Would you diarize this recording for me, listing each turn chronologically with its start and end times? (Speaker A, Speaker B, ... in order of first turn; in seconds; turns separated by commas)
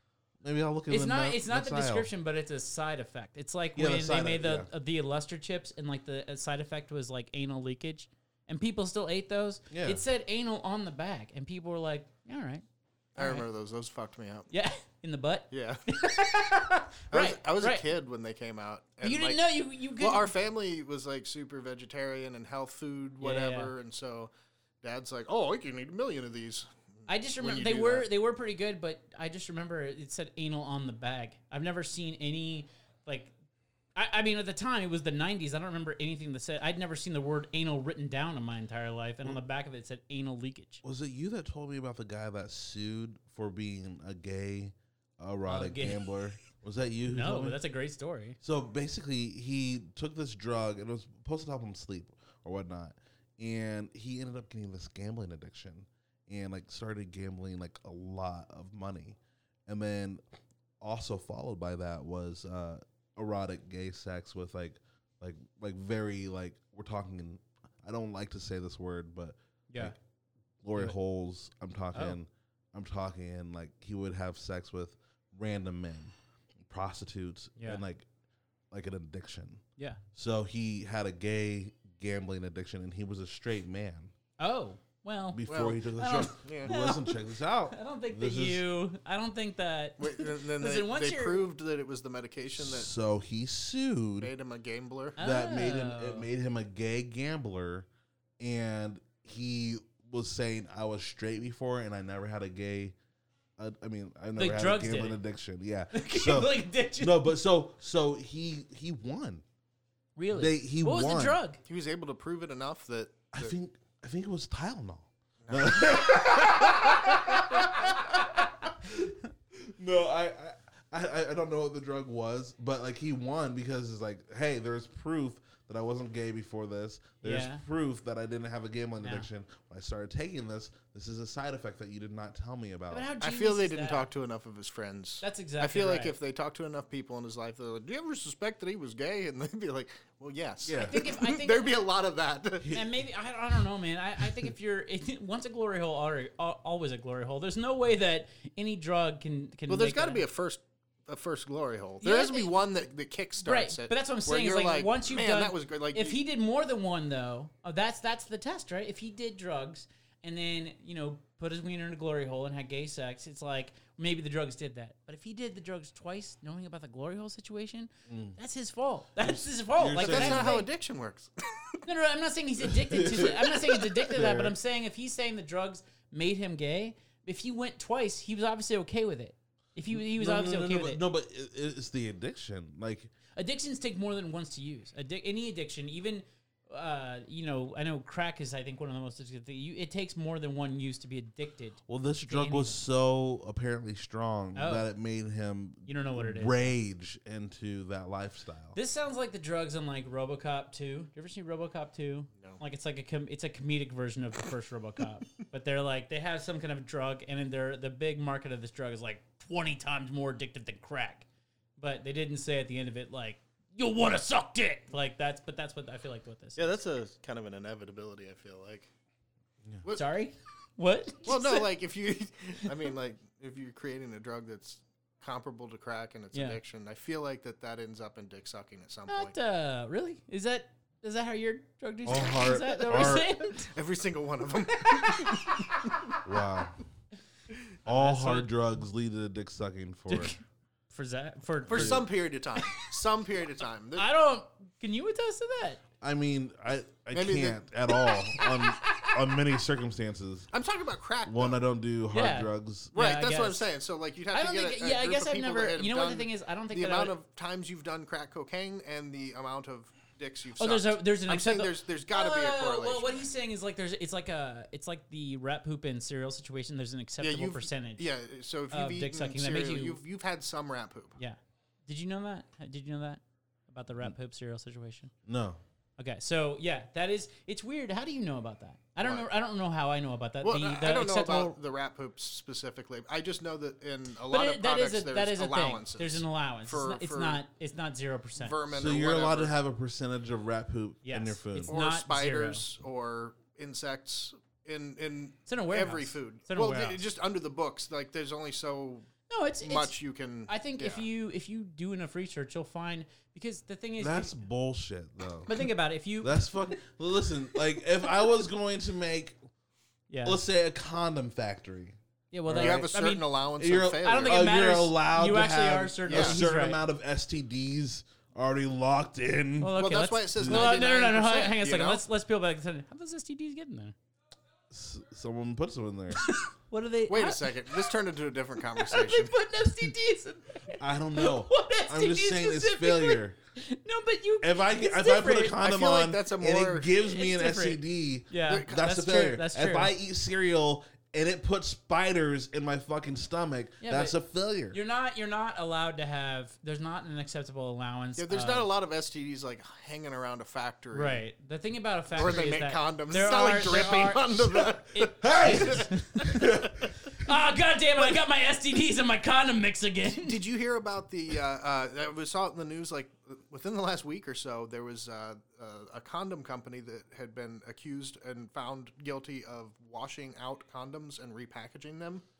Speaker A: 0.4-2.1, Speaker B: 0.9-12.6, Speaker A: 3.8-4.7, Speaker A: 9.7-10.0, Speaker B: 13.2-13.4, Speaker C: 13.2-14.5, Speaker B: 14.5-17.8, Speaker C: 15.5-15.8, Speaker C: 17.1-24.3, Speaker B: 19.0-20.3, Speaker B: 23.2-23.7, Speaker C: 24.8-28.1, Speaker B: 27.1-33.3, Speaker B: 33.9-40.8, Speaker A: 40.8-47.6, Speaker B: 45.5-46.0, Speaker B: 47.1-48.4, Speaker A: 48.4-60.2, Speaker A: 60.8-69.9, Speaker B: 69.7-69.9, Speaker A: 70.6-78.1, Speaker B: 77.6-77.8, Speaker A: 78.7-79.6, Speaker A: 80.1-84.1, Speaker B: 84.4-91.5, Speaker A: 85.3-88.6, Speaker C: 85.5-86.7, Speaker C: 90.0-92.9, Speaker A: 92.6-94.3, Speaker C: 94.2-95.2, Speaker B: 95.2-96.3, Speaker A: 95.2-97.9, Speaker A: 98.4-103.0, Speaker A: 103.6-109.4, Speaker B: 104.3-105.2, Speaker B: 105.9-107.2, Speaker B: 110.2-111.6, Speaker A: 110.3-111.4, Speaker C: 111.6-113.5, Speaker A: 113.3-133.1, Speaker C: 115.4-116.8, Speaker B: 116.7-117.5, Speaker B: 118.2-119.1, Speaker B: 127.2-127.6, Speaker B: 132.9-134.1, Speaker C: 133.2-142.7, Speaker B: 135.2-136.2, Speaker A: 140.6-141.0, Speaker B: 140.7-141.8, Speaker B: 142.7-150.2, Speaker C: 149.7-156.2, Speaker B: 152.0-152.5, Speaker B: 153.4-170.7, Speaker A: 168.1-168.3, Speaker A: 169.2-170.6, Speaker C: 170.0-171.8, Speaker B: 171.8-181.0, Speaker A: 172.9-173.4, Speaker A: 174.1-174.5, Speaker A: 179.9-183.1, Speaker B: 183.3-192.8, Speaker A: 191.9-198.8, Speaker B: 194.5-194.8, Speaker B: 195.8-196.7, Speaker B: 198.7-211.2, Speaker B: 211.8-216.6, Speaker C: 216.6-218.9, Speaker B: 219.9-221.7, Speaker C: 221.2-229.3, Speaker B: 226.3-226.6, Speaker B: 229.1-233.7, Speaker A: 232.1-233.3, Speaker C: 232.9-235.8, Speaker B: 234.8-236.2, Speaker A: 236.2-236.8, Speaker B: 237.8-238.5, Speaker A: 237.8-240.3, Speaker B: 240.1-240.4, Speaker B: 240.9-242.8, Speaker C: 241.7-244.1, Speaker A: 241.7-242.0, Speaker B: 243.9-245.8, Speaker A: 246.0-250.5, Speaker C: 247.1-247.6, Speaker B: 248.4-249.2, Speaker C: 250.5-251.6, Speaker A: 251.2-252.9, Speaker B: 252.1-253.7, Speaker C: 252.9-263.3, Speaker B: 254.3-257.1, Speaker B: 260.6-268.0, Speaker C: 267.2-271.2, Speaker B: 268.7-270.0, Speaker B: 271.2-275.1, Speaker A: 275.2-275.6, Speaker B: 276.0-281.6, Speaker C: 279.0-279.3, Speaker C: 280.4-287.4, Speaker B: 284.3-288.6, Speaker C: 288.4-289.5, Speaker A: 288.7-291.7, Speaker B: 291.0-292.6, Speaker C: 291.7-299.1, Speaker B: 295.4-297.0, Speaker B: 299.3-299.9, Speaker C: 299.6-301.0, Speaker B: 300.5-304.3, Speaker A: 304.0-305.7, Speaker B: 305.4-306.7, Speaker A: 306.2-309.4, Speaker B: 310.1-310.4, Speaker A: 310.2-312.8, Speaker B: 312.3-313.3, Speaker C: 312.5-314.5, Speaker A: 313.6-319.8, Speaker B: 314.0-316.8, Speaker C: 316.1-316.4, Speaker B: 319.6-323.9, Speaker C: 319.7-322.0, Speaker A: 320.4-320.7, Speaker A: 324.7-326.3, Speaker B: 326.1-327.9, Speaker C: 327.1-329.3, Speaker B: 328.7-335.6, Speaker A: 330.8-333.4, Speaker A: 334.4-344.8, Speaker C: 335.6-336.9, Speaker B: 336.9-339.9, Speaker C: 338.5-338.8, Speaker B: 343.8-344.1, Speaker B: 344.7-348.7, Speaker C: 348.2-351.2, Speaker B: 350.9-360.4, Speaker C: 352.1-355.9, Speaker A: 355.2-356.7, Speaker C: 356.4-356.9, Speaker C: 360.2-372.2